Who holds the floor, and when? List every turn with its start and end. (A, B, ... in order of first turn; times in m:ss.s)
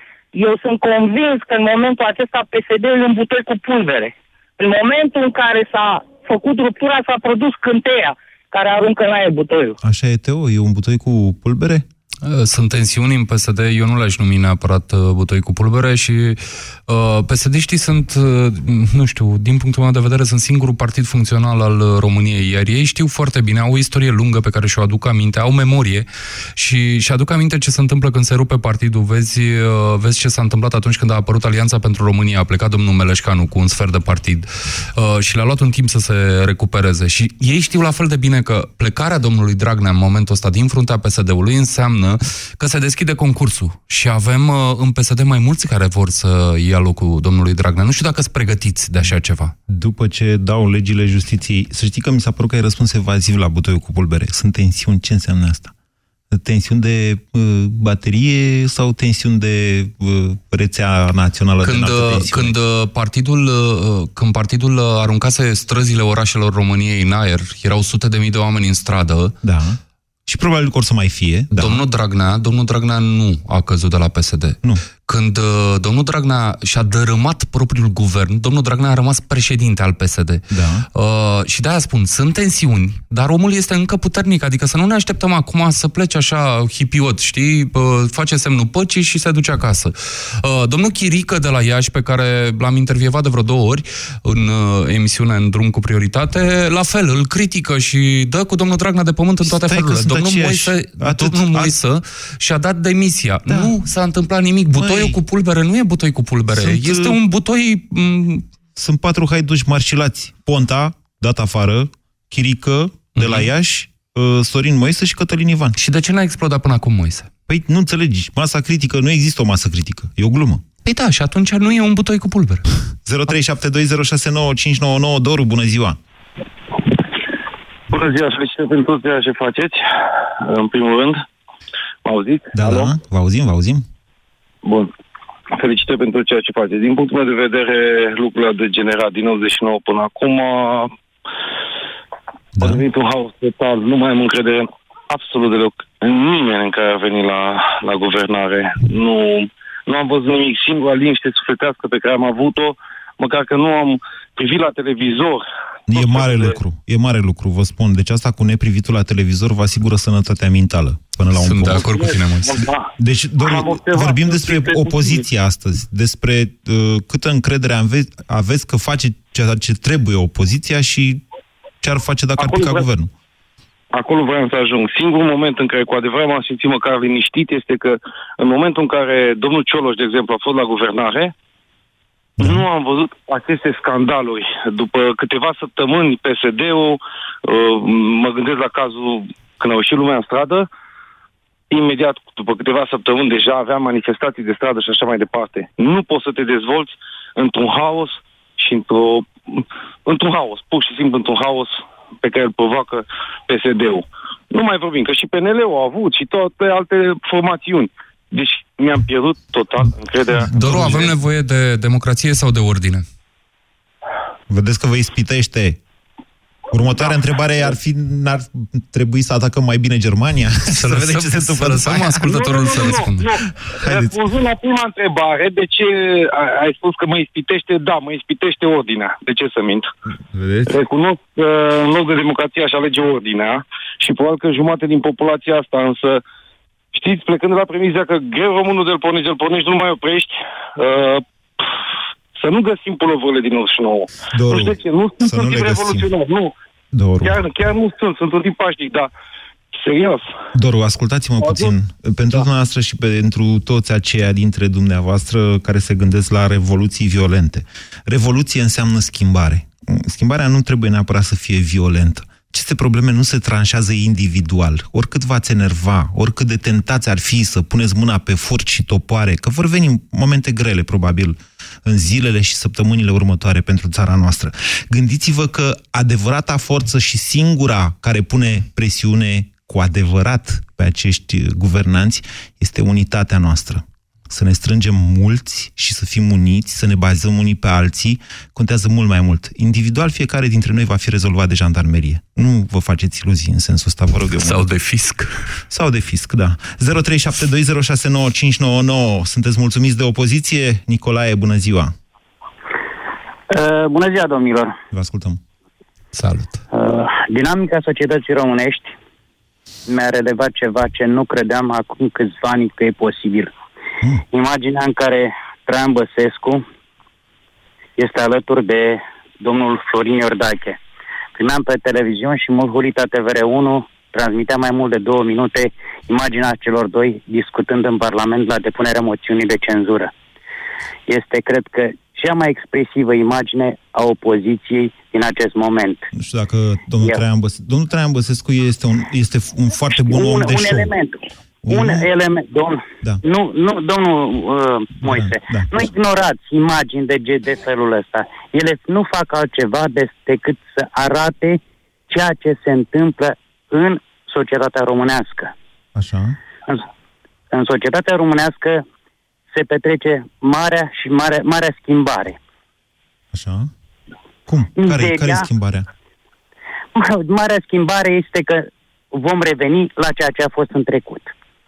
0:00.3-0:09.8 A
0:09.8-0:11.8 B
0:12.2-0:49.5 C
0:49.7-0:55.7 B
0:56.3-1:02.6 B
1:01.6-1:09.3 C
1:09.4-1:11.8 B
1:11.5-1:20.4 C
1:20.5-1:20.9 B
1:21.0-1:48.4 C
1:39.4-1:41.7 B
1:43.5-1:43.8 B
1:44.8-1:45.2 B
1:46.5-1:47.2 B
1:48.8-1:55.8 B
1:53.2-1:53.5 C
1:55.8-1:57.3 C
1:57.5-2:00.7 B
2:00.8-2:02.6 C
2:03.0-2:06.0 B
2:07.9-2:09.8 D
2:10.4-2:11.2 D
2:12.0-2:12.9 D
2:12.5-2:13.8 B
2:14.6-2:14.9 D
2:15.5-2:20.9 D
2:22.6-2:22.8 B
2:22.6-2:36.5 D
2:35.9-2:42.2 B
2:41.3-2:42.6 C
2:42.1-2:42.9 D
2:43.0-2:51.2 B
2:43.4-2:45.2 D
2:51.8-2:53.1 B
2:52.4-2:52.8 D
2:53.9-3:01.3 D
3:02.4-3:10.7 D
3:11.7-3:30.5 D
3:30.5-3:31.2 B
3:30.5-3:33.0 C
3:34.5-3:35.8 B
3:36.7-3:43.1 B
3:37.0-3:37.7 D
3:40.7-3:43.3 C
3:42.2-3:49.9 D
3:43.8-3:44.2 B
3:50.3-3:50.7 B
3:50.7-3:56.2 D
3:56.9-4:01.2 D
4:02.4-4:06.5 D
4:04.3-4:06.1 B
4:06.9-4:07.4 B
4:07.2-4:09.1 D
4:09.7-4:10.3 D
4:10.5-4:54.7 B
4:11.4-4:11.7 D
4:54.4-4:55.3 C
4:55.7-5:01.9 B
5:03.5-5:04.8 E
5:04.9-5:05.4 B
5:06.1-5:06.6 C
5:06.7-5:08.9 E
5:09.9-5:13.5 E
5:14.3-5:16.6 E
5:18.0-5:20.8 E
5:21.4-5:30.1 E
5:31.1-5:36.1 E
5:36.1-5:40.9 B
5:40.0-5:55.5 E
5:41.6-5:42.1 B
5:45.0-5:45.9 B
5:56.0-5:56.4 B
5:57.5-5:58.8 E
5:59.5-6:02.4 E
6:03.3-6:03.7 B
6:04.5-6:05.9 B
6:04.8-6:05.5 E
6:07.0-6:11.3 E